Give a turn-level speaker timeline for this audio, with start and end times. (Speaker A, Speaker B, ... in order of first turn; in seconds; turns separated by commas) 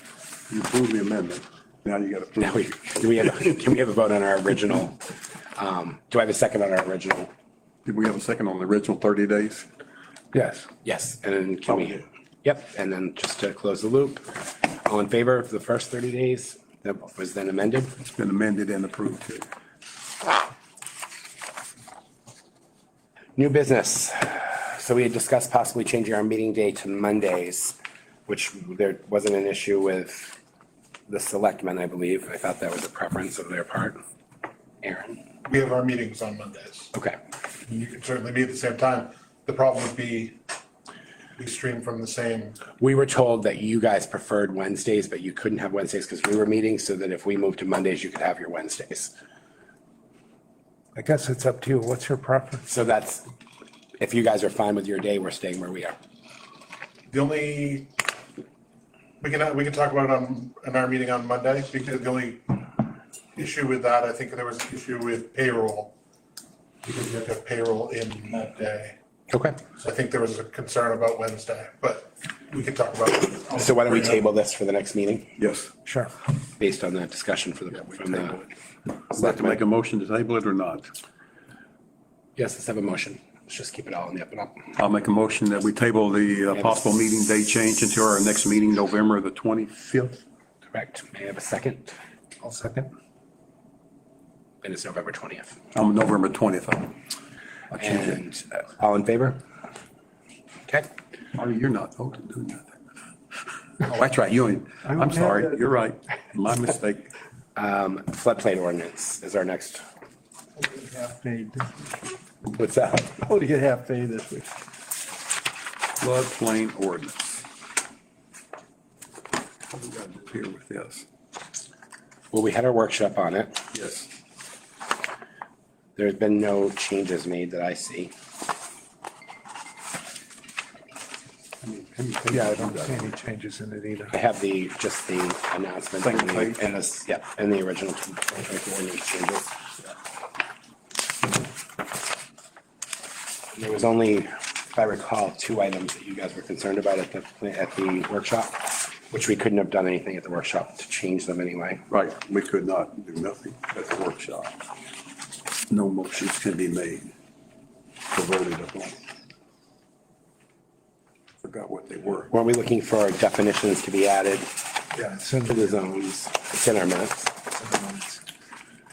Speaker A: 0.5-2.8, Speaker B: 2.4-5.0, Speaker B: 5.5-7.3, Speaker A: 7.8-9.7, Speaker C: 10.3-10.7, Speaker B: 10.8-17.9, Speaker A: 11.7-12.0, Speaker A: 18.0-19.4, Speaker B: 23.4-30.4, Speaker B: 31.1-34.0, Speaker B: 34.8-35.2, Speaker D: 35.4-36.9, Speaker D: 37.7-40.4, Speaker D: 41.4-42.6, Speaker B: 42.8-49.1, Speaker C: 51.0-52.6, Speaker B: 52.6-53.2, Speaker B: 54.0-56.0, Speaker D: 57.1-57.9, Speaker D: 59.2-62.6, Speaker D: 63.4-65.9, Speaker D: 66.8-69.0, Speaker B: 69.3-69.6, Speaker D: 69.8-74.2, Speaker B: 73.5-75.3, Speaker A: 75.4-75.7, Speaker C: 75.8-76.1, Speaker B: 76.6-78.4, Speaker A: 79.1-80.9, Speaker B: 79.1-79.6, Speaker B: 82.3-84.7, Speaker A: 84.8-90.2, Speaker B: 86.5-86.9, Speaker B: 90.7-92.0, Speaker C: 92.4-92.9, Speaker B: 94.6-95.6, Speaker A: 95.7-96.9, Speaker B: 97.7-99.4, Speaker A: 101.4-102.8, Speaker A: 103.8-107.1, Speaker E: 104.8-105.4, Speaker B: 107.5-109.8, Speaker E: 110.6-112.0, Speaker B: 112.4-113.2, Speaker E: 113.2-114.5, Speaker A: 116.0-117.4, Speaker A: 119.7-121.0, Speaker B: 122.3-123.6, Speaker A: 123.7-124.1, Speaker B: 126.0-128.1, Speaker A: 131.6-133.1, Speaker C: 132.3-134.1, Speaker B: 134.1-139.5, Speaker A: 136.0-136.6, Speaker B: 143.5-151.8, Speaker A: 151.9-154.6, Speaker A: 155.7-157.1, Speaker A: 158.1-159.0, Speaker A: 161.4-162.3, Speaker B: 162.3-164.6, Speaker C: 164.9-165.7, Speaker B: 165.5-167.5, Speaker C: 167.6-168.2